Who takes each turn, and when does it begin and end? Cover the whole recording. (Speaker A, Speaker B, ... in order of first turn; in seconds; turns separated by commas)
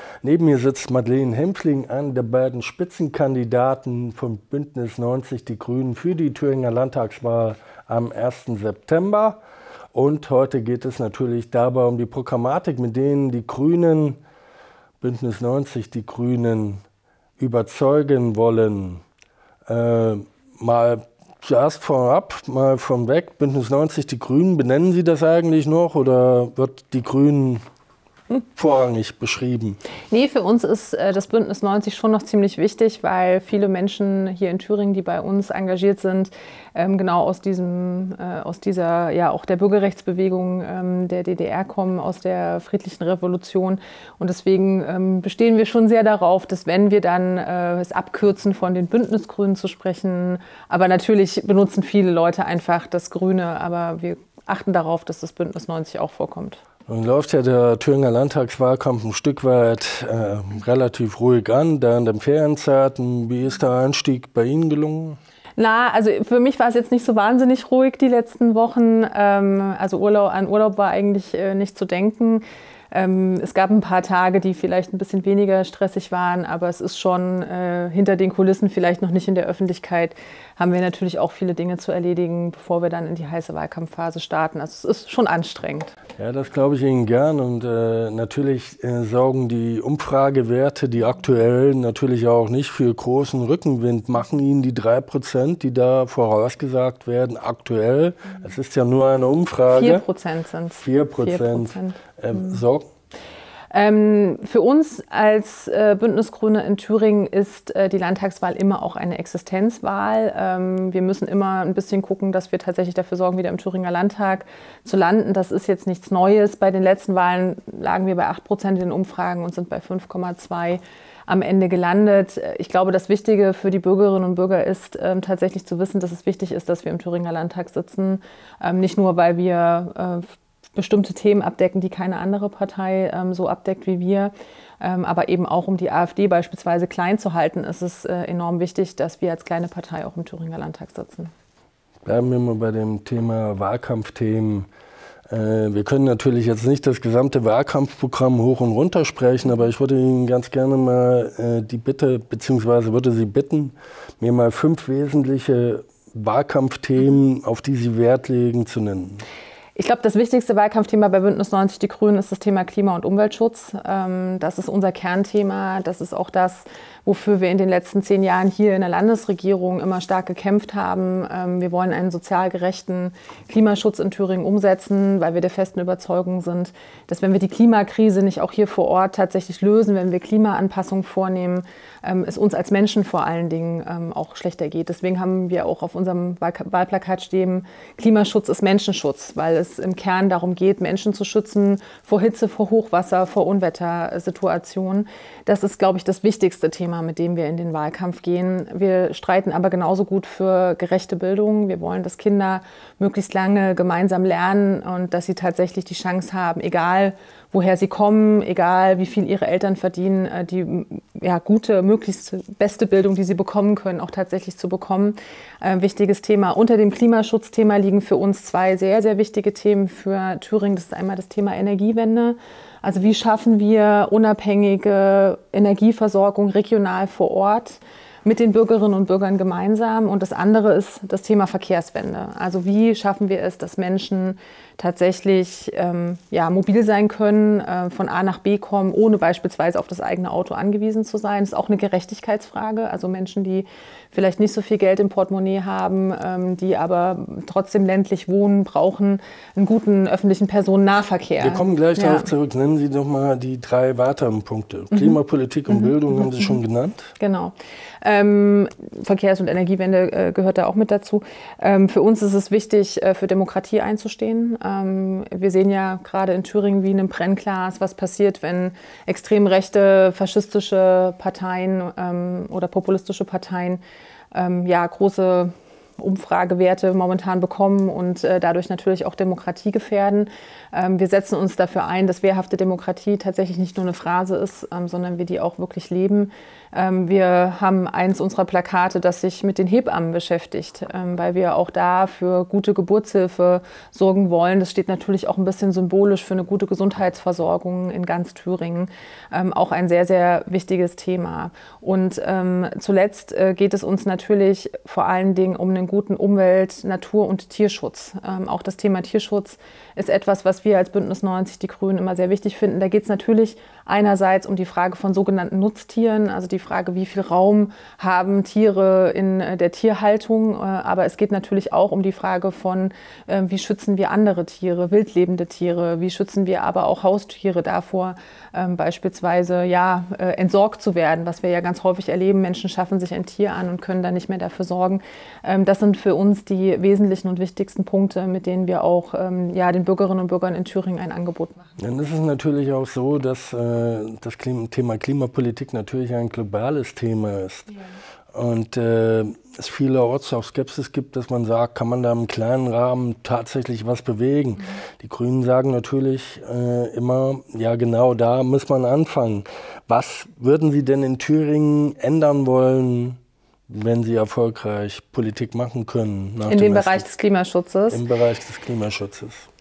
Speaker A: 0.2-9.4, Speaker A: 9.9-14.2, Speaker A: 15.0-16.8, Speaker A: 17.4-19.0, Speaker A: 19.7-27.6, Speaker A: 28.6-29.8, Speaker B: 30.1-56.6, Speaker A: 56.9-65.2, Speaker B: 65.6-86.0, Speaker A: 86.2-100.0, Speaker B: 99.7-102.6, Speaker A: 100.8-102.9, Speaker B: 103.7-141.3, Speaker A: 142.1-144.7, Speaker A: 145.3-159.2, Speaker B: 159.8-252.3, Speaker A: 251.4-257.1, Speaker B: 254.9-255.2, Speaker B: 255.7-256.6, Speaker B: 257.2-273.8, Speaker B: 274.3-341.8, Speaker A: 341.8-347.7, Speaker A: 348.3-367.1, Speaker B: 366.5-368.0, Speaker A: 367.9-369.5